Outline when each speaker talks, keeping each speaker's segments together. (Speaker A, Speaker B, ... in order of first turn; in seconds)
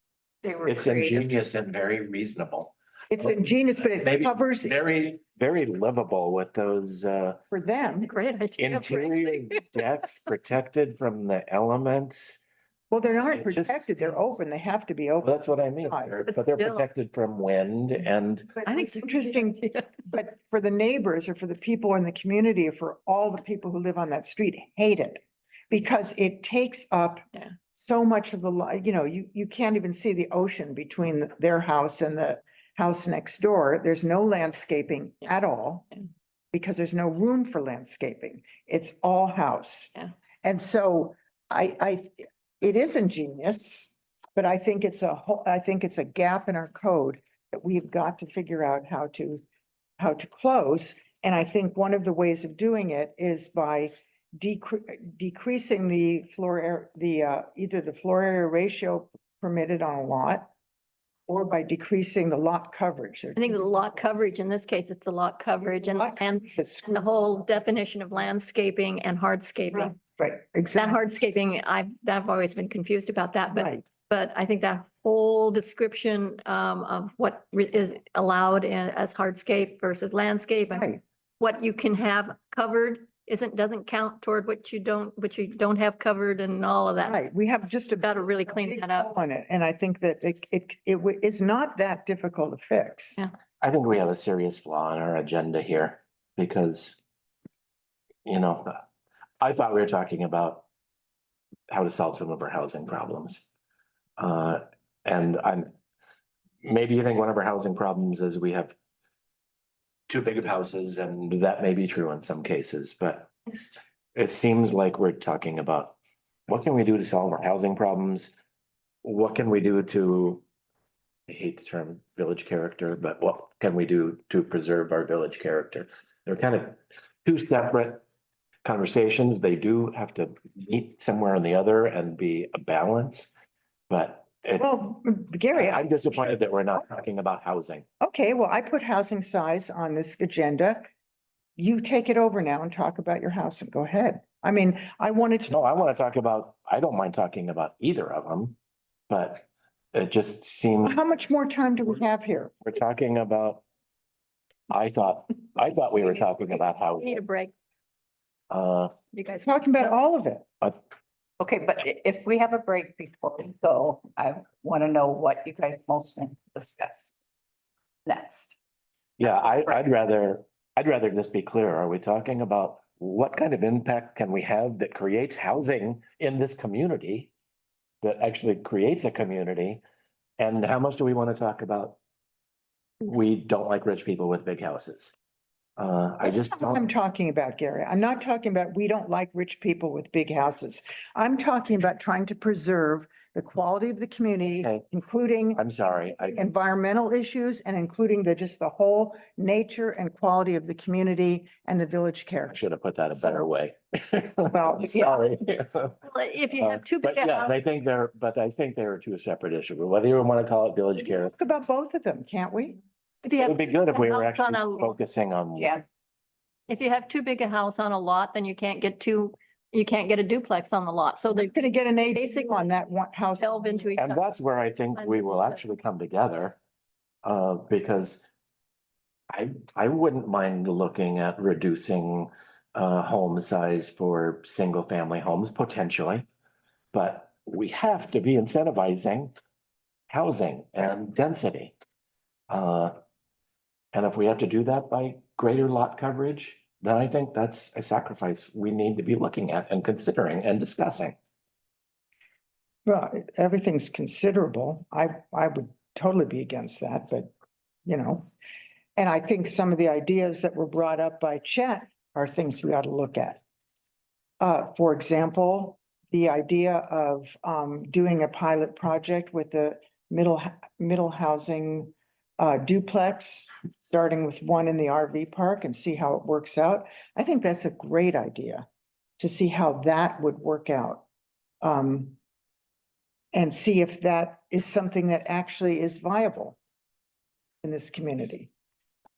Speaker A: 0.4-1.2, 161.4-167.2, 168.1-168.6, 215.6-215.8
Speaker B: 0.6-2.7, 3.9-7.4, 8.6-12.4, 13.2-14.4, 15.2-18.5, 93.6-97.0, 98.2-98.7, 99.4-100.6, 101.7-103.5, 104.2-105.7, 106.6-108.7, 110.1-118.4, 119.0-120.4, 121.3-128.0, 128.6-133.3, 133.9-134.7, 135.5-137.8, 145.5-148.6, 149.1-151.0, 152.6-153.6, 154.7-157.2, 158.5-158.9, 169.2-177.3, 178.0-179.8, 180.4-182.0, 183.0-185.2, 185.8-186.8, 195.5-196.4, 202.5-206.0, 206.6-211.3, 213.4-215.8, 224.0-226.6, 227.2-228.2, 229.3-236.2, 236.9-239.3, 240.1-241.7, 242.5-242.9, 243.9-251.2
Speaker C: 3.1-4.8, 7.5-8.1, 12.9-16.1, 18.6-35.9, 36.5-49.4, 50.0-60.5, 61.3-64.4, 65.7-67.6, 69.7-71.2, 73.5-73.8, 80.7-81.0, 87.0-93.2, 134.6-135.9, 138.0-140.9, 141.6-145.5, 150.8-152.5, 159.4-160.4, 186.2-195.6, 196.3-202.6, 203.1-203.4, 204.5-205.2, 211.0-212.8, 221.3-223.9, 252.8-257.3, 257.9-258.2, 258.9-263.4, 264.4-278.6, 279.2-281.0, 281.6-282.1, 283.3-286.6, 287.6-288.5
Speaker D: 8.1-9.6, 16.3-16.8, 18.6-19.9, 63.4-70.0, 70.7-87.2, 88.0-89.1, 157.0-157.5, 159.1-159.5, 206.0-207.6, 213.2-214.9, 216.7-222.7, 223.4-224.3, 224.9-225.6